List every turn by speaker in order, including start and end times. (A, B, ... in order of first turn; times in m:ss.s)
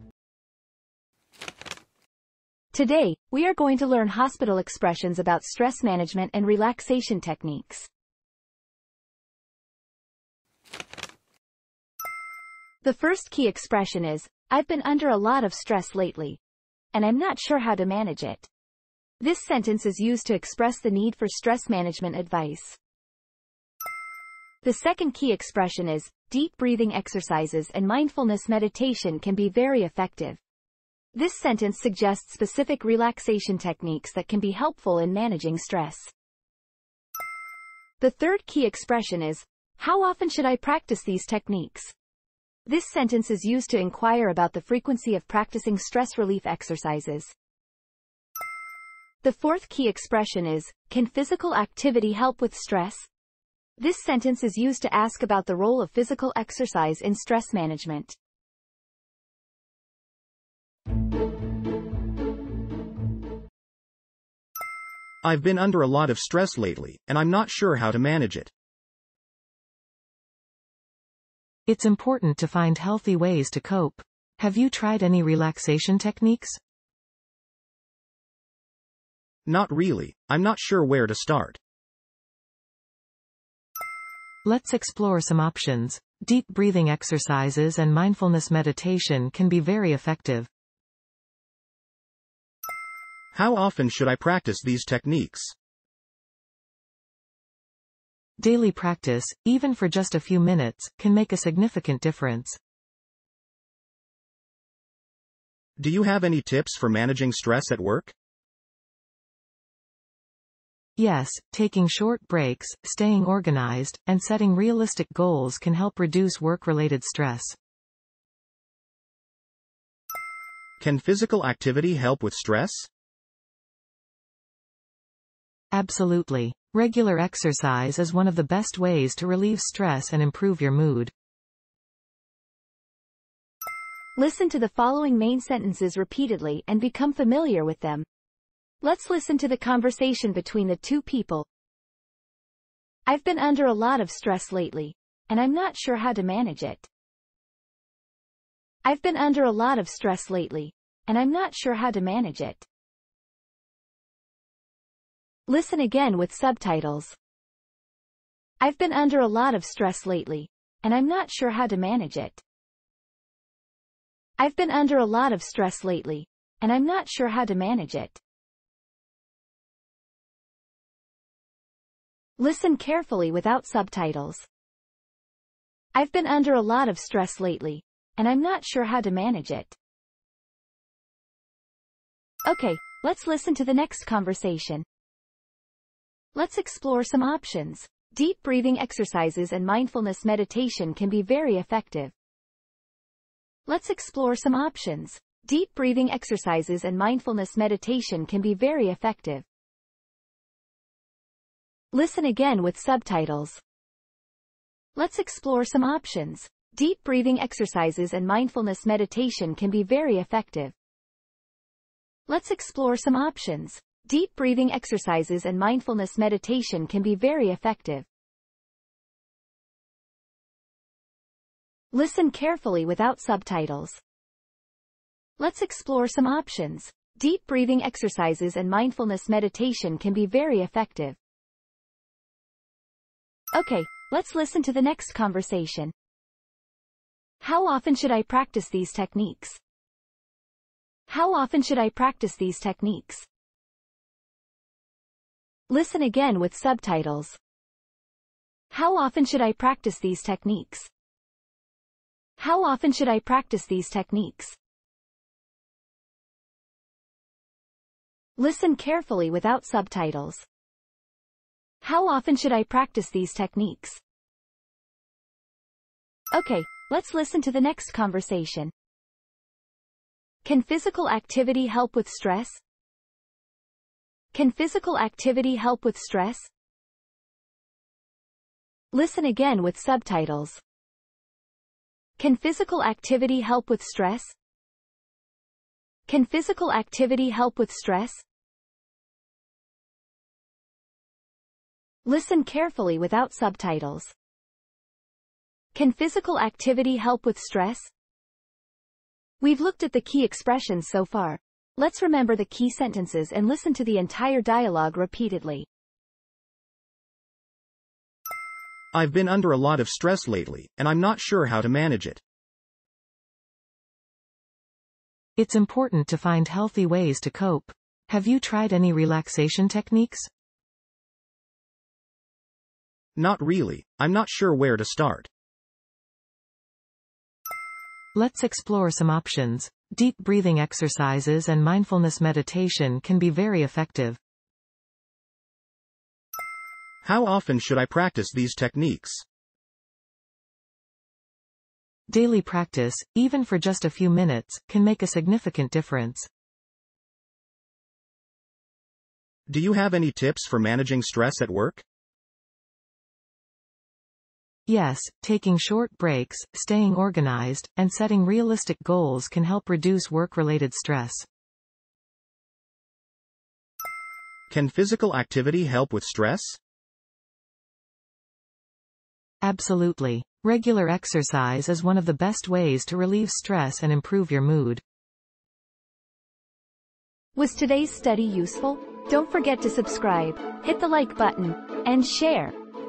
0:02.7-0:07.9 A
0:12.8-0:16.4 A
0:16.9-0:18.5 A
0:19.2-0:22.8 A
0:24.6-0:30.4 A
0:31.1-0:36.1 A
0:38.0-0:41.9 A
0:42.6-0:47.3 A
0:49.2-0:53.1 A
0:53.8-0:58.2 A
1:05.2-1:08.5 B
1:11.7-1:16.6 C
1:19.4-1:21.6 B
1:24.4-1:30.5 C
1:33.3-1:35.5 B
1:38.4-1:42.6 C
1:45.8-1:48.1 B
1:51.0-1:57.6 C
2:00.8-2:02.9 B
2:05.7-2:11.1 C
2:14.2-2:18.0 A
2:18.8-2:21.5 A
2:23.0-2:26.9 A
2:28.8-2:32.6 A
2:35.5-2:37.2 A
2:38.6-2:42.4 A
2:44.4-2:48.2 A
2:52.4-2:54.5 A
2:55.9-2:59.8 A
3:02.4-3:04.8 A
3:06.3-3:12.1 A
3:13.6-3:19.4 A
3:21.9-3:23.6 A
3:24.9-3:30.7 A
3:32.3-3:38.1 A
3:41.9-3:44.0 A
3:45.4-3:51.2 A
3:53.5-3:55.9 A
3:57.4-3:59.6 A
4:01.1-4:03.3 A
4:05.7-4:07.4 A
4:08.7-4:10.9 A
4:12.4-4:14.6 A
4:18.4-4:20.4 A
4:21.8-4:24.0 A
4:26.3-4:28.7 A
4:30.4-4:32.6 A
4:34.3-4:36.5 A
4:38.9-4:40.6 A
4:42.2-4:44.3 A
4:46.1-4:48.2 A
4:52.0-4:54.1 A
4:55.7-4:57.9 A
4:59.4-5:05.7 A
5:08.9-5:12.2 B
5:15.4-5:20.3 C
5:23.2-5:25.3 B
5:28.1-5:34.2 C
5:37.0-5:39.2 B
5:42.1-5:46.3 C
5:49.5-5:51.8 B
5:54.7-6:01.2 C
6:04.5-6:06.6 B
6:09.4-6:14.8 C
6:17.3-6:22.5 A